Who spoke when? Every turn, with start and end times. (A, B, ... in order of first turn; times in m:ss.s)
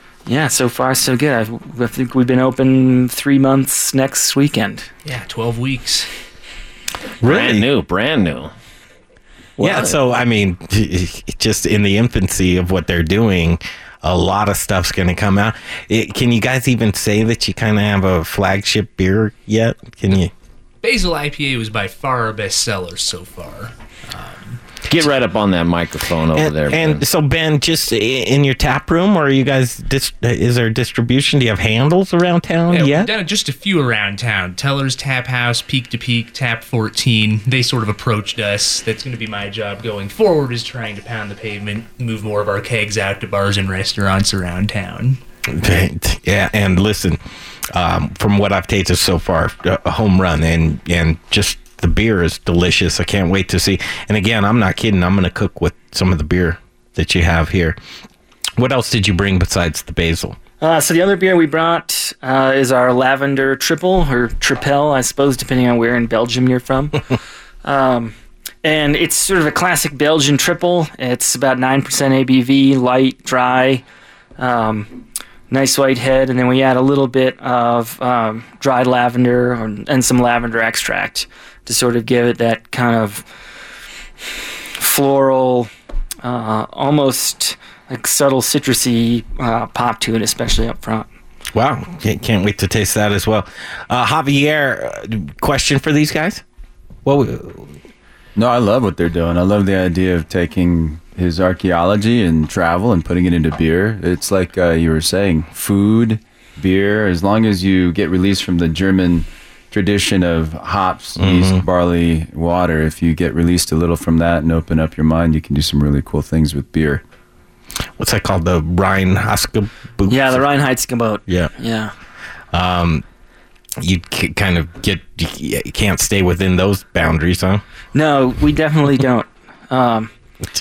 0:00.2-0:04.9 A
0:05.0-0:06.1 B
0:07.2-0:07.7 C
0:07.2-0:08.5 D
0:09.6-0:10.0 D
0:09.6-0:20.3 C
0:20.8-0:24.6 B
0:24.9-0:27.0 D
0:26.4-0:33.1 C
0:32.7-0:45.2 B
0:45.5-0:47.2 C
0:47.7-0:57.8 C
0:58.6-1:00.4 C
1:00.6-1:07.0 A
1:07.6-1:13.8 A
1:14.4-1:14.9 A
1:15.5-1:23.2 A
1:24.8-1:25.7 A
1:26.2-1:31.1 A
1:31.5-1:36.4 C
1:37.0-1:37.7 C
1:38.4-1:57.0 E
1:51.2-1:51.6 C
1:58.0-2:00.4 C
2:00.1-2:01.9 A
2:01.3-2:01.5 C
2:02.5-2:03.0 C
2:03.8-2:07.6 C
2:07.9-2:10.1 A